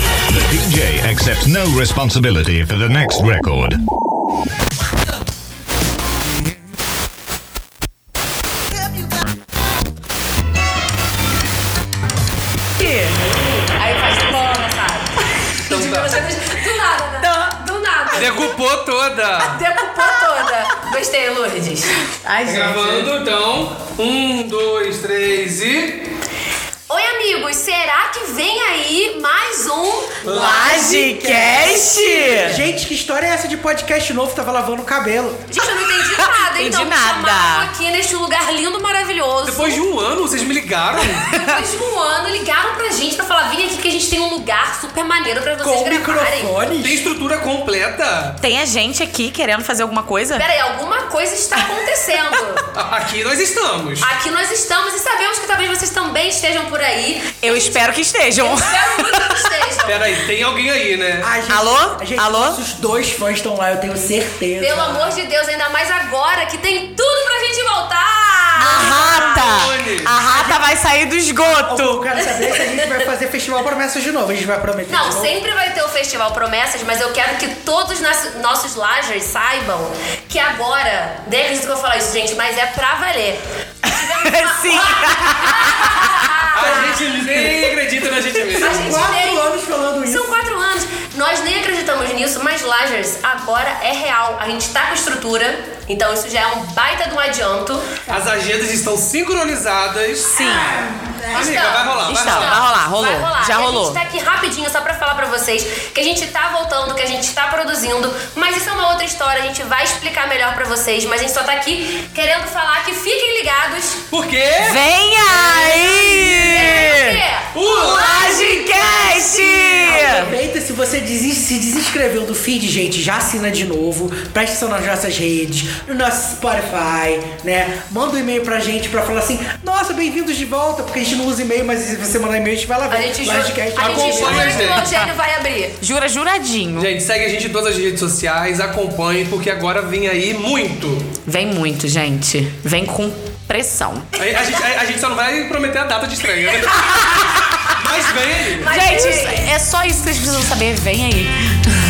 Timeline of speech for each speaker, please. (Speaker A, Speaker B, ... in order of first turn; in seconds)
Speaker A: 0.3-3.8
Speaker B: 12.8-13.2, 14.0-14.6, 17.2-17.5, 22.2-23.1, 30.2-32.6, 36.1-37.7, 48.4-50.5, 57.4-59.4, 61.5-62.6, 68.6-72.0, 83.8-86.1, 100.3-100.8, 102.0-104.0, 114.6-117.2, 117.7-120.3, 134.5-135.1, 135.8-136.9, 141.2-144.1, 148.6-151.3
Speaker C: 12.8-15.1, 15.6-18.5, 19.4-22.0, 26.9-30.6, 32.1-32.5, 35.5-39.8, 41.3-46.5, 50.3-52.6, 54.0-57.7, 58.4-60.1, 64.6-69.6, 74.9-87.1, 88.6-89.5, 90.0-97.9, 101.3-114.0, 116.3-119.8, 132.9-135.8, 148.6-149.4
Speaker D: 15.6-16.1, 18.1-19.6, 22.4-26.0, 30.2-30.8, 39.4-41.3, 46.8-48.4, 52.7-54.1, 59.8-61.3, 69.4-70.2, 86.5-88.9, 98.1-102.7, 114.1-114.8, 115.3-115.8, 117.5-118.4, 133.8-134.9, 136.7-141.1, 144.2-147.1, 147.8-148.8
Speaker E: 30.5-35.5, 45.6-47.0, 61.2-65.1, 71.5-75.3, 87.2-87.6, 88.5-90.3, 100.8-101.2, 119.8-134.8